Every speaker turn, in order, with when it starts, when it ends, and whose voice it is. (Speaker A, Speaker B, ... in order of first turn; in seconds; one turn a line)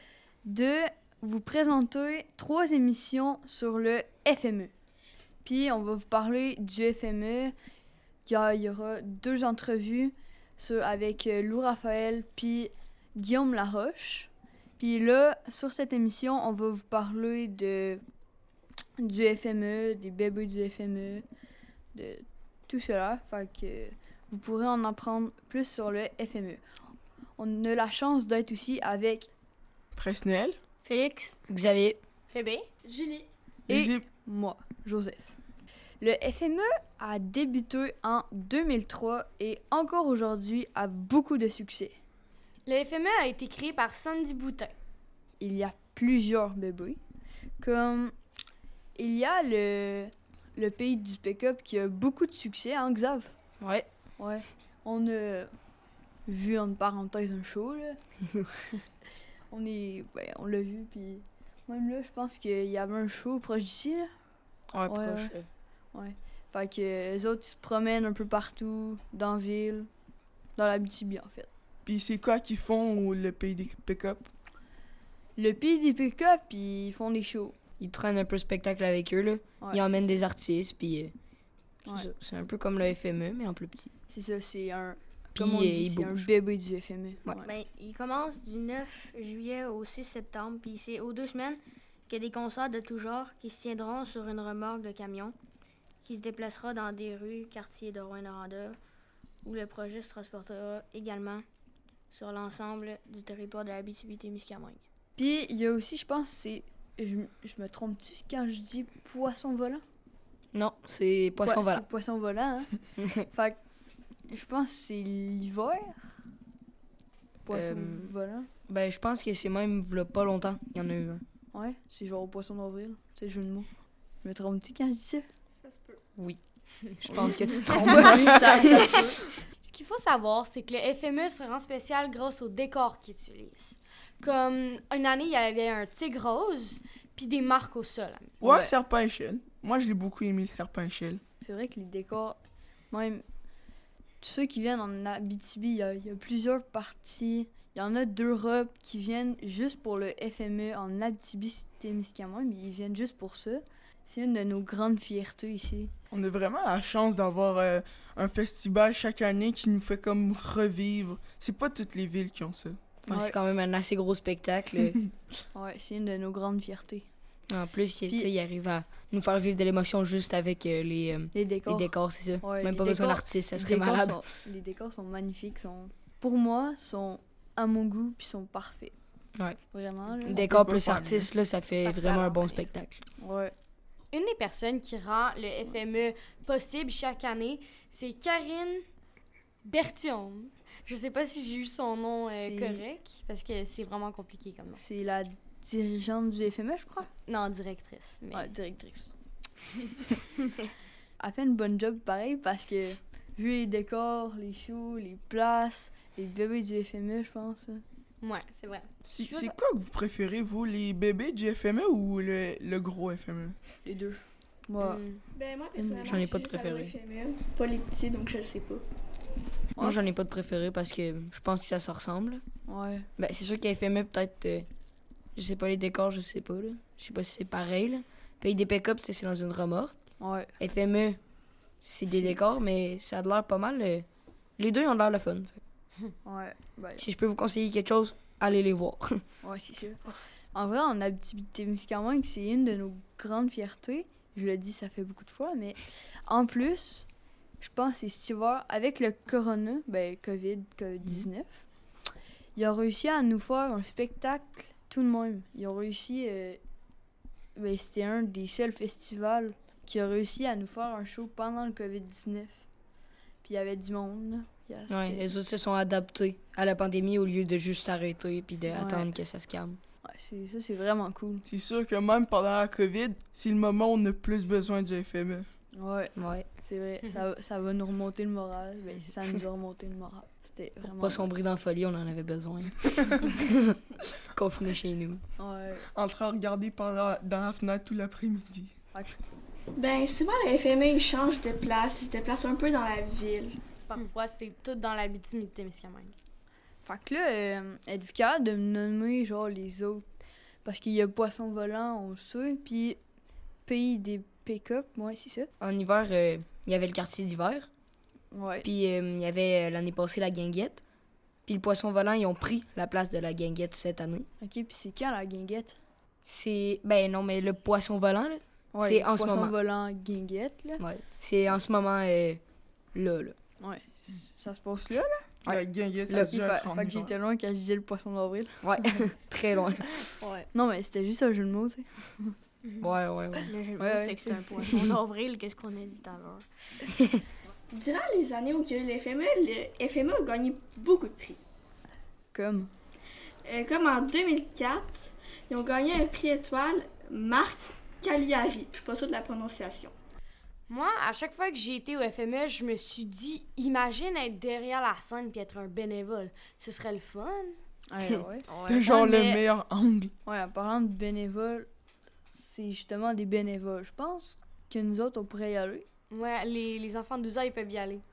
Speaker A: 0.5-4.7
Speaker A: 5.5-7.5
Speaker A: 8.3-18.0
Speaker A: 19.0-21.2
Speaker A: 21.9-26.6
Speaker A: 27.4-29.3
Speaker B: 30.0-30.6
Speaker C: 30.9-31.4
Speaker D: 31.5-32.0
Speaker E: 32.3-32.7
Speaker F: 32.8-33.3
Speaker A: 33.7-35.3
Speaker B: 33.7-34.1
Speaker A: 36.0-42.0
Speaker E: 42.7-44.7
Speaker A: 45.4-47.0
Speaker A: 47.6-48.1
Speaker A: 49.0-53.3
Speaker D: 53.6-53.9
Speaker A: 54.2-55.5
Speaker A: 56.3-58.0
Speaker A: 59.5-64.1
Speaker D: 64.7-65.5
Speaker A: 64.9-65.3
Speaker A: 65.9-69.9
Speaker A: 70.6-71.5
Speaker B: 71.9-74.3
Speaker A: 75.4-77.5
Speaker D: 77.8-81.1
Speaker A: 79.6-80.2
Speaker D: 81.9-83.9
Speaker A: 84.1-87.5
Speaker D: 85.4-86.3
Speaker C: 87.4-95.4
Speaker C: 96.0-98.8
Speaker C: 99.5-101.4
Speaker C: 102.1-104.8
Speaker A: 105.2-109.8
Speaker D: 110.5-111.8
Speaker A: 111.4-112.7
Speaker A: 113.3-113.6
Speaker A: 114.3-116.0
Speaker A: 117.5-118.5
Speaker D: 117.5-118.1
Speaker D: 118.7-121.2
Speaker A: 121.5-123.7
Speaker A: 124.2-125.2
Speaker F: 125.5-126.0
Speaker D: 127.0-128.9
Speaker A: 127.1-129.2
Speaker E: 129.6-138.3
Speaker B: 138.4-141.2
Speaker A: 138.4-138.7
Speaker A: 141.4-142.4
Speaker A: 142.9-143.2
Speaker A: 144.2-155.9
Speaker B: 156.1-162.8
Speaker D: 163.1-165.0
Speaker A: 163.1-163.4
Speaker A: 165.5-167.1
Speaker D: 167.5-174.2
Speaker A: 168.1-168.3
Speaker A: 171.3-178.9
Speaker A: 179.7-180.5
Speaker D: 180.2-183.0
Speaker B: 180.3-181.3
Speaker E: 181.8-182.7
Speaker A: 183.2-183.5
Speaker E: 184.1-188.8
Speaker E: 189.7-194.8
Speaker A: 192.3-192.8
Speaker A: 194.8-197.1
Speaker E: 197.2-198.5
Speaker A: 198.3-199.1
Speaker A: 201.2-207.8
Speaker E: 208.2-209.5
Speaker B: 209.0-213.6
Speaker A: 213.8-215.0
Speaker E: 214.8-215.2
Speaker F: 215.3-218.8
Speaker A: 215.8-216.3
Speaker D: 216.1-216.9
Speaker D: 219.8-222.4
Speaker A: 222.7-223.1
Speaker D: 223.2-224.7
Speaker D: 225.3-229.9
Speaker A: 230.2-230.5
Speaker D: 230.6-231.2
Speaker D: 231.8-234.1
Speaker A: 232.1-232.4
Speaker D: 234.6-235.6
Speaker A: 236.2-237.1
Speaker D: 237.0-239.2
Speaker A: 239.4-247.1
Speaker A: 247.6-251.6
Speaker A: 252.6-256.6
Speaker A: 257.6-262.6
Speaker A: 263.4-265.3
Speaker D: 264.9-269.8
Speaker A: 268.7-269.1
Speaker A: 270.1-271.4
Speaker B: 271.5-275.5
Speaker A: 275.8-281.5
Speaker D: 276.2-276.5
Speaker D: 280.9-283.8
Speaker D: 284.3-285.2
Speaker A: 285.4-285.9
Speaker B: 285.9-288.7
Speaker A: 288.9-289.2
Speaker F: 289.8-293.6
Speaker E: 293.9-296.1
Speaker A: 296.8-300.0
Speaker A: 300.6-303.0
Speaker A: 303.7-305.5
Speaker D: 305.6-307.7
Speaker A: 308.3-308.7
Speaker D: 308.6-310.8
Speaker D: 311.5-314.3
Speaker A: 314.4-315.8
Speaker D: 316.2-319.6
Speaker A: 318.7-320.8
Speaker D: 320.8-322.4
Speaker D: 322.9-323.4
Speaker A: 323.6-325.2
Speaker D: 325.5-326.3
Speaker B: 325.5-327.1
Speaker A: 326.1-329.0
Speaker D: 328.6-330.0
Speaker A: 330.5-332.4
Speaker D: 332.8-333.5
Speaker C: 333.4-336.9
Speaker A: 333.8-334.8
Speaker F: 337.7-341.4
Speaker A: 342.3-342.7
Speaker F: 343.4-349.9
Speaker E: 350.7-357.6
Speaker A: 357.9-358.5
Speaker E: 358.5-359.4
Speaker B: 358.6-360.1
Speaker A: 360.2-361.7
Speaker A: 362.3-365.9
Speaker E: 366.1-368.0